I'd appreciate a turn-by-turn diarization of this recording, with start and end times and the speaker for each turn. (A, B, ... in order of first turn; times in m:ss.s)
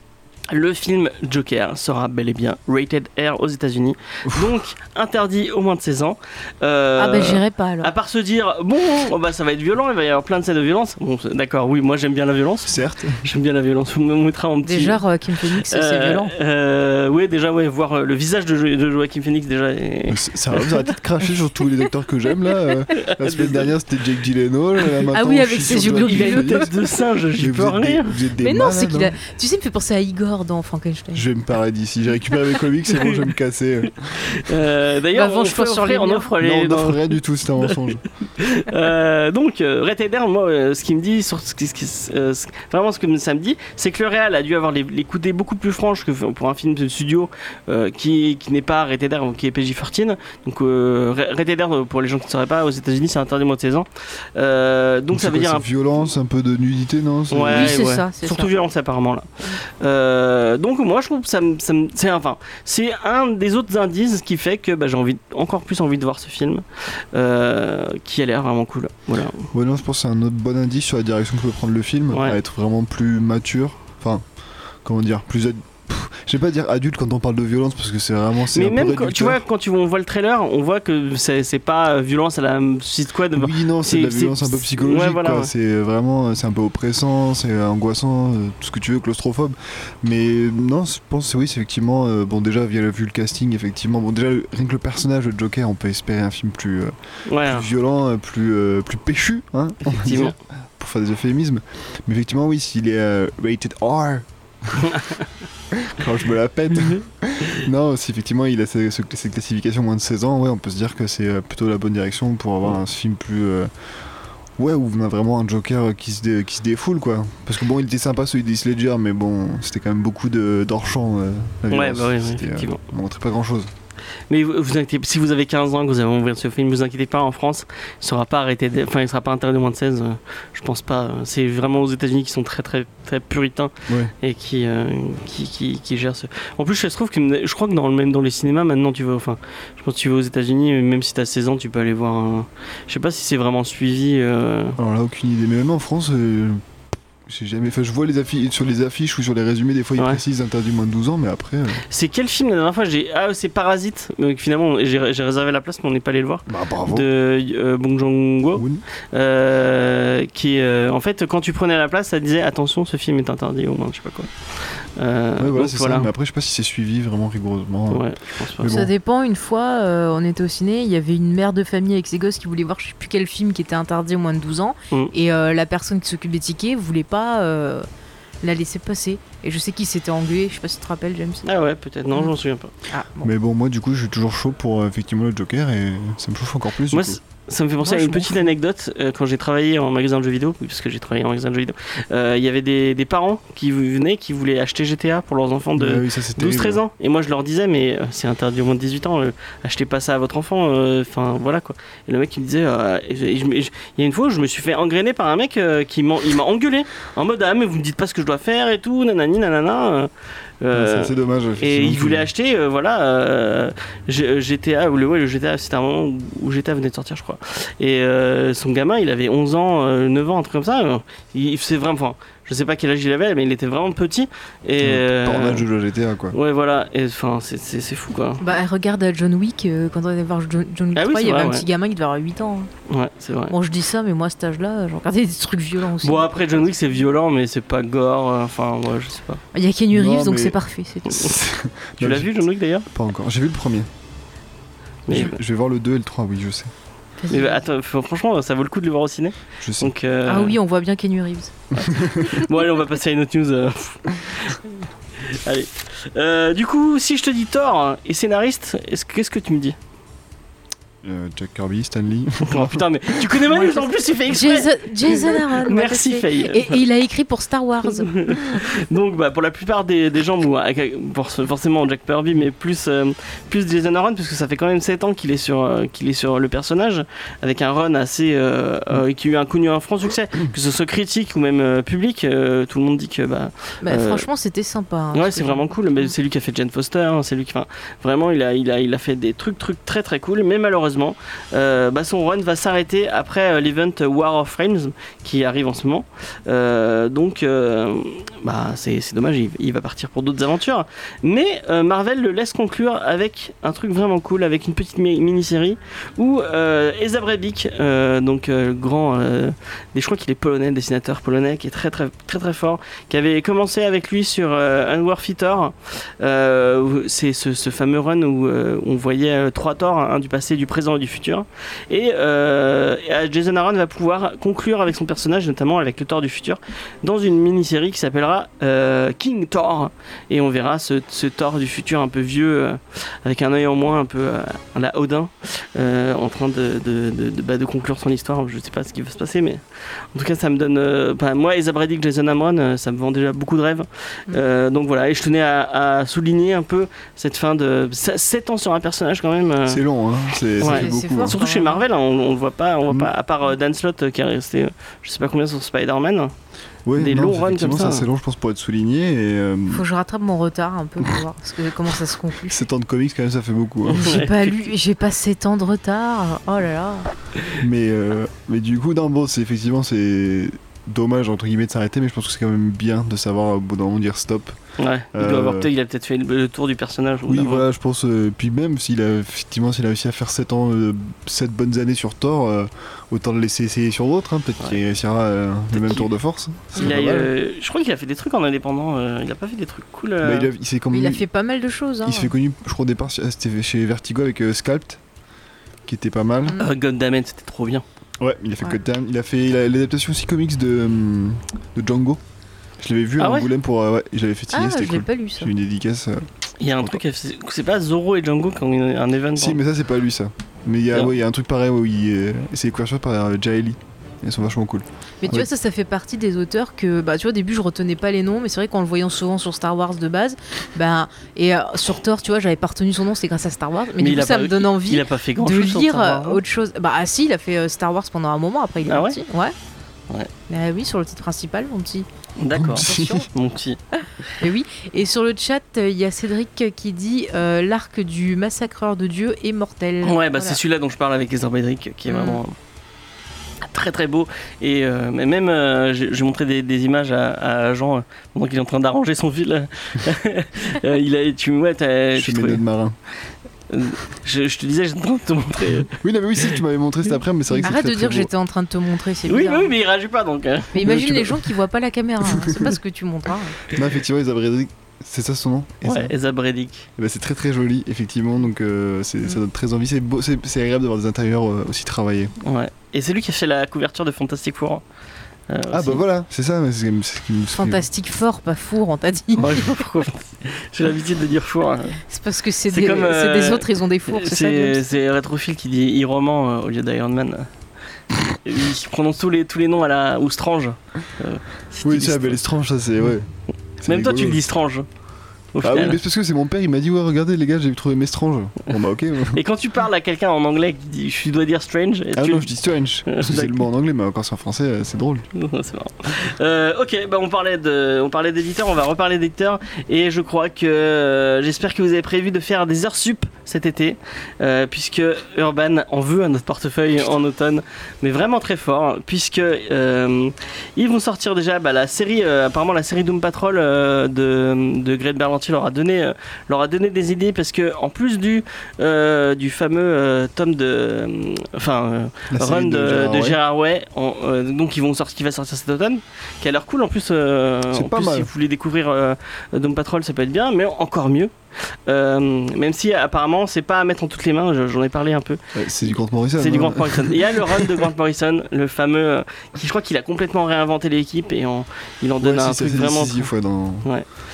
0:00.5-0:15.0 A
0:04.3-0:04.6 B
0:07.0-0:07.9 C
0:12.6-0:13.3 B
0:14.6-0:16.3 C
0:15.6-0:20.9 A
0:20.1-0:26.7 B
0:23.0-0:23.7 A
0:25.1-0:26.7 C
0:25.6-0:28.2 A
0:27.4-0:29.1 B
0:28.4-0:31.2 C
0:31.1-0:34.3 B
0:32.9-0:33.2 A
0:34.2-0:55.7 A
0:35.1-0:36.3 C
0:36.4-0:38.0 B
0:55.1-0:57.8 B
0:57.3-1:09.5 A
0:57.5-0:58.5 C
1:09.5-1:14.2 B
1:12.1-1:12.4 A
1:14.8-1:19.4 B
1:18.5-1:25.5 A
1:23.3-1:45.0 B
1:37.2-1:37.7 A
1:39.9-1:40.4 A
1:44.8-1:45.1 A
1:45.7-1:53.7 B
1:46.7-1:47.0 A
1:54.6-2:03.7 B
2:01.7-2:02.8 A
2:04.3-2:24.8 A
2:13.9-2:14.1 B
2:24.8-2:26.6 B
2:27.3-2:31.8 B
2:31.9-2:46.1 A
2:36.5-2:37.1 B
2:38.6-2:38.8 B
2:45.4-2:48.0 B
2:47.9-2:48.7 A
2:48.6-2:48.9 B
2:48.7-2:57.8 C
2:58.4-3:01.5 C
3:01.4-3:02.7 A
3:02.9-3:03.3 C
3:03.2-3:07.2 B
3:06.9-3:45.7 A
3:07.8-3:08.5 C
3:15.8-3:16.8 B
3:30.7-3:32.3 B
3:44.8-3:46.4 B
3:46.3-3:48.4 A
3:48.4-3:52.7 C
3:50.9-3:51.7 A
3:52.9-3:53.5 A
3:53.5-3:56.7 C
3:56.0-3:59.4 A
3:59.5-4:01.3 C
3:59.9-4:00.6 B
4:01.1-4:01.4 A
4:01.1-4:02.3 B
4:02.0-4:02.9 A
4:02.9-4:03.9 B
4:05.1-4:05.4 A
4:05.1-4:06.7 B
4:07.2-4:07.6 C
4:07.3-4:10.6 A
4:09.6-4:09.9 B
4:10.2-4:11.5 C
4:11.7-4:12.2 B
4:11.7-4:19.8 A
4:21.0-4:22.8 B
4:22.5-4:26.8 A
4:23.5-4:28.6 C
4:27.9-4:44.2 A
4:43.8-4:46.1 C
4:45.1-5:49.8 A
5:49.7-5:51.4 B
5:50.6-5:56.3 A
5:50.6-5:51.8 C
5:56.8-5:59.8 B
5:57.0-5:58.1 A
5:59.7-6:02.5 C
6:02.4-6:04.2 B
6:03.9-6:04.6 A
6:03.9-6:07.1 C
6:07.6-6:14.6 B
6:14.8-6:17.6 A
6:15.1-6:15.7 B
6:17.3-6:27.3 B
6:25.7-6:26.1 A
6:26.8-6:30.5 A
6:30.2-6:31.2 B
6:30.9-6:32.3 C
6:32.0-6:35.0 B
6:35.8-6:36.6 B
6:36.6-6:37.8 A
6:38.2-6:42.2 B
6:42.8-6:47.0 B
6:43.2-6:43.5 A
6:44.5-6:45.5 C
6:46.6-6:49.6 A
6:49.4-6:55.5 B
6:55.2-7:09.5 C
7:04.0-7:06.4 A
7:08.9-7:09.2 A
7:10.5-7:12.1 C
7:12.4-7:13.8 A
7:12.6-7:13.1 B
7:12.7-7:13.3 C
7:14.4-7:20.6 C
7:20.0-7:22.5 A
7:22.1-7:22.4 C
7:23.6-7:32.6 A
7:32.2-7:33.0 B
7:33.7-7:36.0 A
7:36.0-7:38.3 B
7:37.6-7:39.7 C
7:39.2-7:41.2 A
7:40.7-7:43.6 C
7:40.8-7:41.4 B
7:42.2-7:42.7 B
7:43.7-7:46.1 B
7:45.8-7:46.9 A
7:47.0-7:52.3 B
7:52.4-7:54.8 A
7:55.5-7:56.0 A
7:55.7-7:57.8 B
7:57.5-7:59.8 C
7:59.4-8:02.0 A
8:02.1-8:04.8 C
8:02.7-8:07.5 A
8:08.4-8:12.4 A
8:11.8-8:13.3 B
8:13.8-8:14.4 B
8:13.8-8:14.8 A
8:15.5-8:16.0 A
8:15.6-8:19.4 B
8:19.3-8:22.5 A
8:22.2-8:25.2 B
8:23.0-8:23.7 A
8:25.3-9:01.3 A
8:52.3-8:53.4 B
8:57.7-8:58.3 B
9:01.9-9:05.4 A
9:05.5-9:07.8 B
9:06.4-9:13.3 A
9:12.2-9:13.9 B